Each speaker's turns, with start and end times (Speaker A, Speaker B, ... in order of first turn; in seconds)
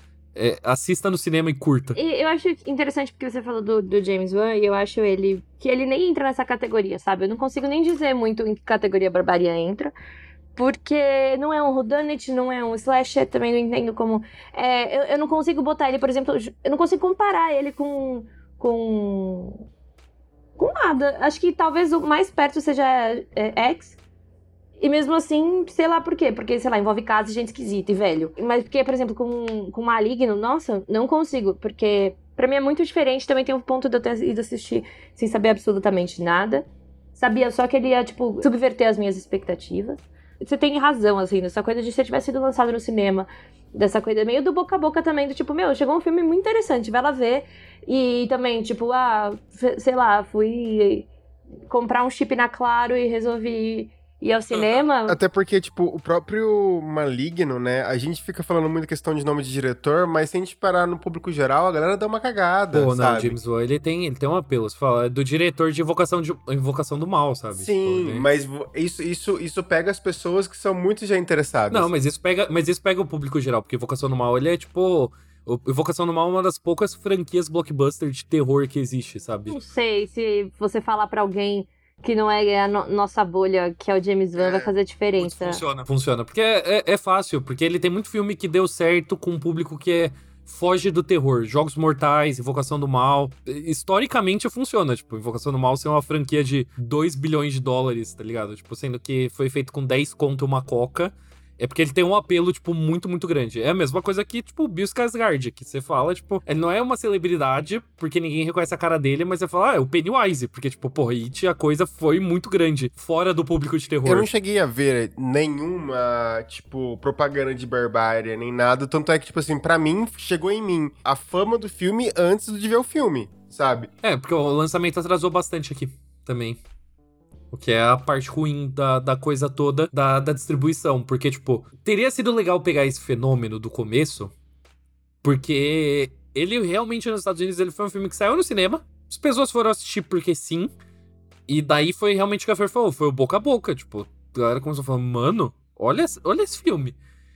Speaker A: 0.3-2.0, 54.5-54.8, 62.7-68.3, 71.7-79.6, 85.2-114.3, 124.0-126.6, 127.5-134.3, 135.2-140.7, 141.5-147.0
Speaker B: 1.9-9.9, 10.6-19.6, 20.6-24.0, 24.8-51.1, 51.7-55.2, 79.5-85.6
Speaker C: 55.1-63.4, 67.5-71.9, 84.4-84.7, 114.0-123.9